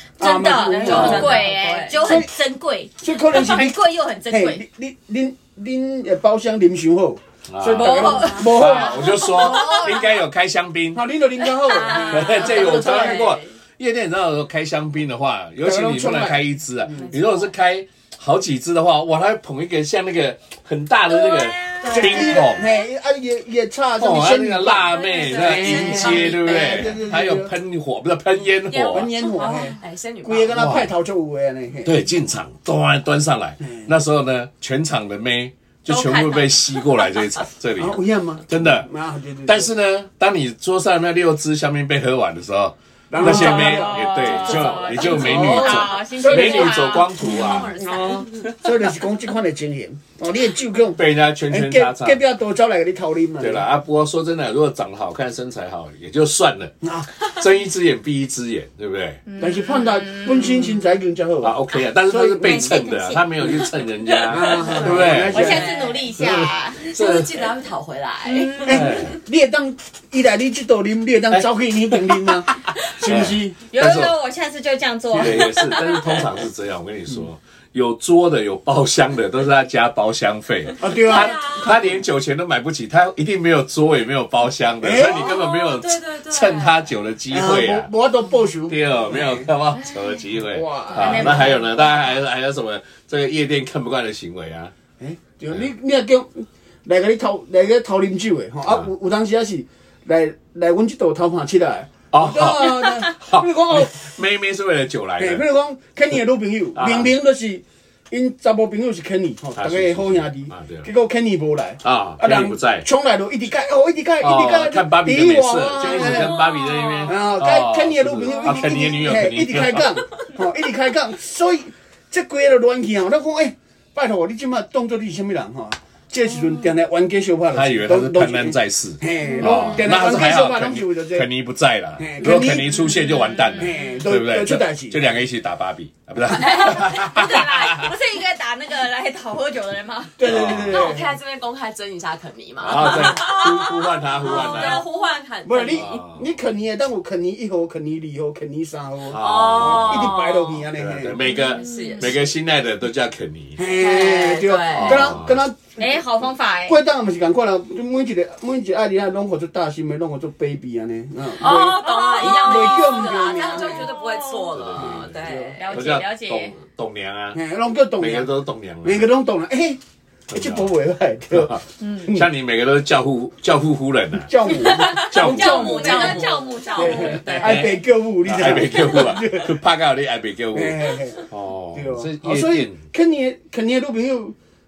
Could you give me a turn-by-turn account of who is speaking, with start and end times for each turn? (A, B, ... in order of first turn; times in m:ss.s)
0:00.2-0:04.6 A
0:00.2-0:02.3 B
0:00.8-0:02.2 C
0:00.9-0:01.2 D
0:03.0-0:09.6 B
0:03.4-0:03.6 C
0:07.5-0:11.0 D
0:07.8-0:10.1 A
0:10.9-0:13.3 B
0:11.4-0:13.5 C
0:12.1-0:22.7 D
0:12.7-0:13.1 A
0:15.6-0:17.2 B
0:17.0-0:17.5 C
0:21.1-0:22.6 A
0:21.8-0:22.4 C
0:21.9-0:27.5 B
0:24.0-0:29.1 D
0:24.9-0:27.0 C
0:28.7-0:30.6 C
0:28.9-0:32.0 B
0:29.4-0:29.8 A
0:30.5-0:30.9 D
0:31.8-0:38.9 D
0:33.6-0:33.9 B
0:35.9-0:37.2 A
0:37.8-0:39.7 B
0:39.5-0:47.8 D
0:43.1-0:47.1 B
0:43.2-0:48.3 A
0:45.0-0:45.6 C
0:46.3-0:48.6 C
0:48.6-0:53.7 B
0:50.9-0:52.2 D
0:53.4-0:59.2 D
0:56.8-0:57.1 B
0:59.3-1:00.8 A
0:59.4-1:02.8 B
1:01.4-1:07.4 D
1:02.4-1:03.6 A
1:04.3-1:05.8 B
1:04.3-1:06.9 A
1:04.7-1:09.2 C
1:08.2-1:09.0 A
1:08.6-1:13.6 B
1:08.7-1:09.1 D
1:11.3-1:14.1 D
1:13.7-1:16.2 A
1:15.1-1:27.9 D
1:20.8-1:22.0 B
1:21.0-1:21.8 C
1:24.8-1:25.3 B
1:25.0-1:26.8 C
1:27.3-1:29.5 B
1:28.7-1:34.7 D
1:30.5-1:31.6 B
1:30.9-1:31.7 A
1:35.0-1:44.1 B
1:42.1-1:45.4 D
1:45.2-1:56.4 B
1:46.8-1:47.1 D
1:49.6-1:50.9 D
1:51.8-1:52.9 D
1:54.2-1:59.9 D
1:56.0-1:56.4 C
1:56.1-1:56.6 A
1:57.1-2:11.3 B
2:07.5-2:17.9 D
2:09.2-2:09.7 A
2:12.0-2:15.0 B
2:12.8-2:13.8 A
2:16.3-2:17.8 C
2:16.4-2:20.3 A
2:20.2-2:21.1 B
2:20.2-2:20.9 D
2:20.6-2:23.6 C
2:22.6-2:24.8 D
2:22.8-2:25.1 A
2:24.2-2:26.0 C
2:25.4-2:31.2 B
2:25.7-2:26.2 D
2:29.1-2:30.2 D
2:29.1-2:30.7 C
2:30.7-2:33.6 D
2:31.3-2:32.3 C
2:31.3-2:32.0 A
2:33.6-2:43.9 B
2:33.8-2:35.2 C
2:34.7-2:35.4 D
2:35.8-2:36.8 A
2:41.4-2:45.9 C
2:41.4-2:44.7 A
2:44.6-2:45.2 D
2:44.8-2:45.6 B
2:45.6-2:46.5 A
2:45.7-2:47.4 D
2:47.3-2:52.3 B
2:48.0-2:49.0 D
2:50.3-2:50.7 D
2:51.3-2:56.2 D
2:51.8-2:52.1 A
2:54.2-2:55.5 B
2:54.6-2:57.6 C
2:54.8-2:57.6 A
2:56.8-2:59.6 B
2:57.2-3:02.8 D
3:00.5-3:04.4 B